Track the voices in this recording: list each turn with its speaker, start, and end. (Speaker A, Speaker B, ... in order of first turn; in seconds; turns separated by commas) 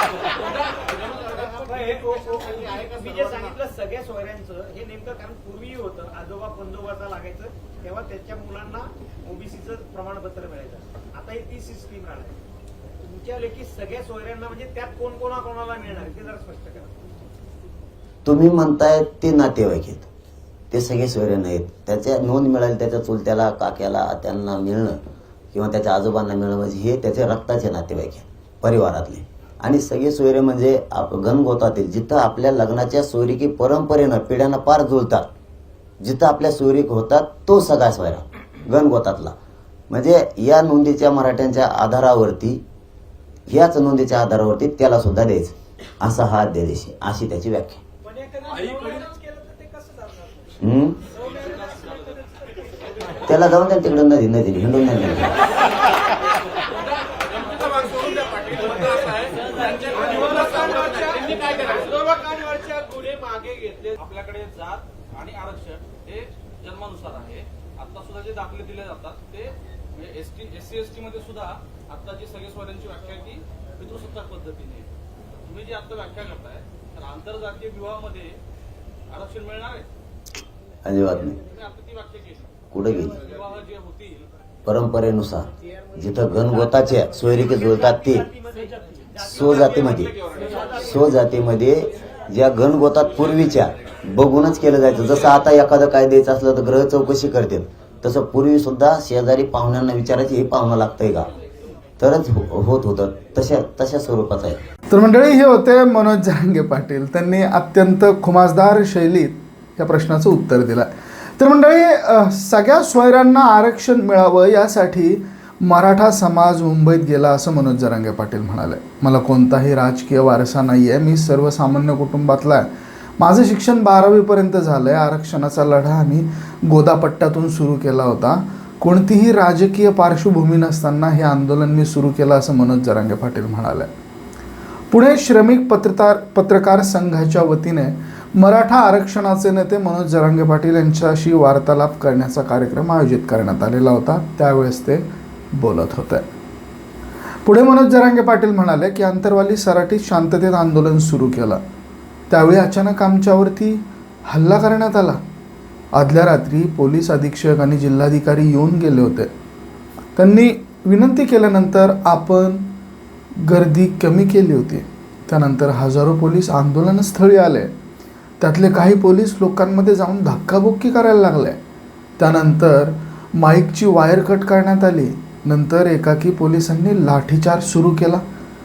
Speaker A: 1.3-12.4, Speaker A: 13.0-17.0, Speaker B: 18.2-20.1, Speaker B: 20.7-25.0, Speaker B: 25.5-35.2, Speaker B: 36.0-39.3, Speaker B: 39.9-42.6, Speaker B: 43.5-47.8, Speaker A: 48.0-50.5, Speaker B: 50.6-51.0, Speaker A: 51.2-51.6, Speaker B: 53.2-55.4, Speaker C: 57.4-78.4, Speaker C: 79.1-79.9, Speaker B: 80.8-81.4, Speaker C: 81.5-82.5, Speaker B: 82.7-83.2, Speaker C: 83.2-84.2, Speaker B: 84.6-88.3, Speaker A: 88.3-89.2, Speaker B: 89.2-101.3, Speaker A: 90.0-90.8, Speaker B: 102.0-104.6, Speaker D: 104.9-133.9, Speaker D: 134.9-146.2, Speaker D: 147.4-151.6, Speaker D: 152.3-155.2, Speaker D: 155.9-159.3, Speaker D: 160.2-162.7, Speaker D: 163.4-167.7, Speaker D: 168.4-171.6, Speaker D: 172.2-178.2